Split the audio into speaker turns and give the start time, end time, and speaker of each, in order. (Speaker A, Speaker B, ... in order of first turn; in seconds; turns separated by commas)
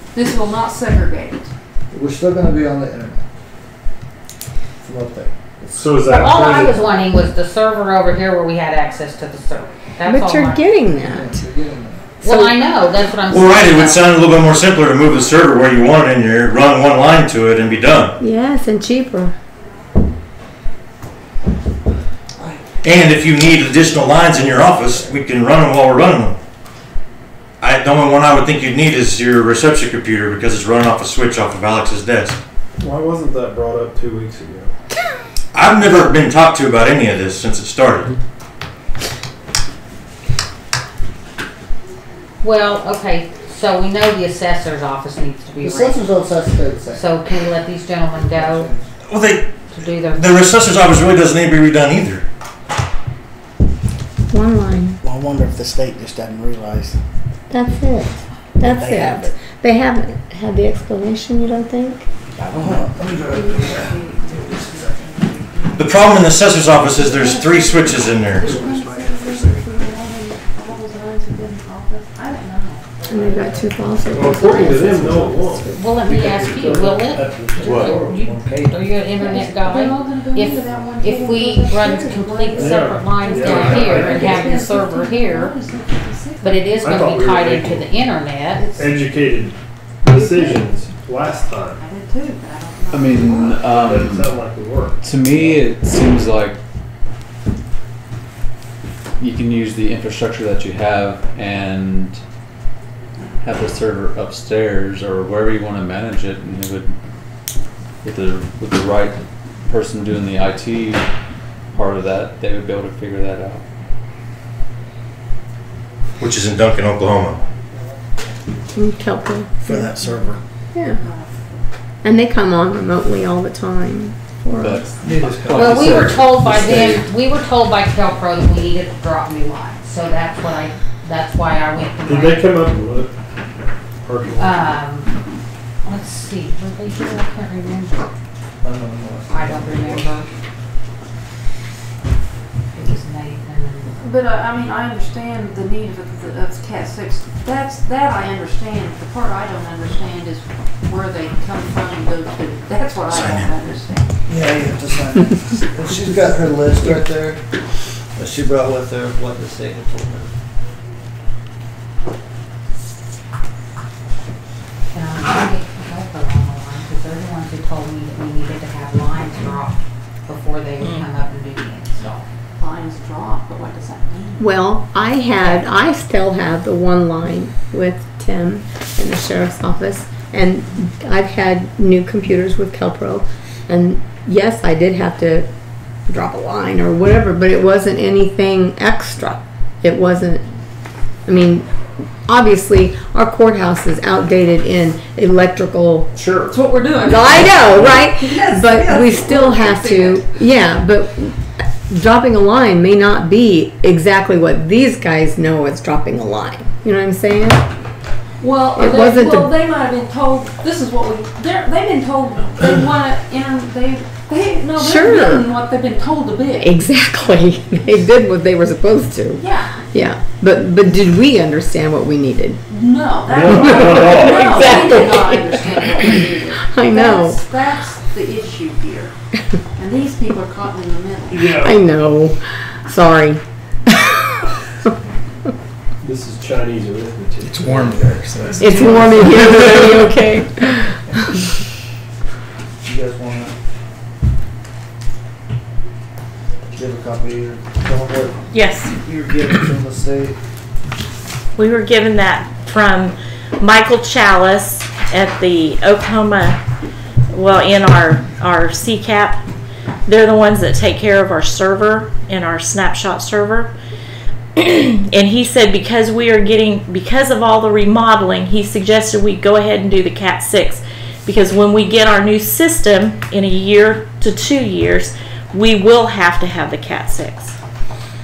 Speaker A: 0.1-1.5, Speaker B: 1.9-3.3, Speaker B: 4.8-6.5, Speaker C: 5.7-6.8, Speaker D: 6.1-10.6, Speaker E: 10.1-11.4, Speaker B: 10.9-12.1, Speaker D: 12.2-14.2, Speaker E: 12.2-12.5, Speaker F: 13.3-18.1, Speaker E: 18.2-19.3, Speaker F: 22.8-26.4, Speaker B: 24.3-25.1, Speaker F: 27.6-32.4, Speaker C: 32.8-34.7, Speaker F: 35.5-38.1, Speaker D: 42.4-46.0, Speaker B: 45.6-47.0, Speaker D: 46.9-48.7, Speaker B: 48.2-48.9, Speaker F: 49.1-49.6, Speaker D: 49.7-50.5, Speaker F: 50.1-52.2, Speaker E: 54.3-55.0, Speaker G: 55.0-57.0, Speaker E: 57.5-62.1, Speaker G: 58.6-59.3, Speaker G: 62.4-63.2, Speaker B: 62.5-63.8, Speaker A: 62.9-73.6, Speaker F: 65.8-68.5, Speaker B: 68.4-69.1, Speaker E: 73.1-75.8, Speaker C: 74.1-77.0, Speaker D: 75.7-85.6, Speaker B: 76.1-78.8, Speaker A: 77.6-78.3, Speaker A: 79.2-86.9, Speaker C: 82.5-84.5, Speaker D: 86.4-88.7, Speaker C: 86.8-87.9, Speaker A: 88.5-89.1, Speaker C: 88.7-91.8, Speaker A: 90.0-90.8, Speaker A: 91.3-93.7, Speaker H: 92.9-94.4, Speaker C: 93.7-95.5, Speaker H: 95.0-96.6, Speaker H: 99.2-102.2, Speaker H: 103.4-107.0, Speaker H: 108.0-111.0, Speaker H: 111.7-113.6, Speaker F: 116.2-117.4, Speaker E: 118.8-119.9, Speaker A: 120.0-120.4, Speaker E: 120.7-121.0, Speaker A: 121.0-121.7, Speaker E: 122.0-124.9, Speaker H: 124.5-126.3, Speaker B: 125.0-126.8, Speaker C: 125.4-126.2, Speaker D: 125.5-132.6, Speaker C: 132.0-133.1, Speaker C: 134.0-134.8, Speaker D: 134.4-135.1, Speaker D: 135.8-138.1, Speaker B: 138.6-140.1, Speaker D: 139.3-140.3, Speaker D: 142.7-143.9, Speaker A: 144.0-154.1, Speaker F: 153.2-153.5, Speaker B: 154.3-157.4, Speaker B: 158.2-160.3, Speaker D: 164.9-172.2, Speaker A: 172.6-174.4, Speaker E: 174.4-185.5, Speaker D: 175.4-175.7, Speaker E: 186.1-190.4, Speaker E: 191.2-191.7, Speaker E: 192.2-196.2, Speaker A: 196.3-200.3, Speaker E: 197.0-207.7, Speaker A: 208.4-216.7, Speaker E: 208.8-209.5, Speaker E: 214.8-215.5, Speaker E: 216.6-222.6, Speaker A: 219.4-219.8, Speaker A: 222.7-229.2, Speaker C: 223.3-224.8, Speaker E: 223.4-227.4, Speaker A: 229.8-231.5, Speaker C: 231.3-231.8, Speaker E: 231.3-234.2, Speaker C: 236.0-239.1, Speaker G: 237.5-238.6, Speaker E: 238.6-241.4, Speaker B: 242.8-243.5, Speaker B: 246.7-248.4, Speaker I: 248.5-248.9, Speaker B: 248.9-250.4, Speaker I: 251.6-256.6, Speaker I: 257.3-259.4, Speaker I: 260.1-263.7, Speaker I: 264.6-277.5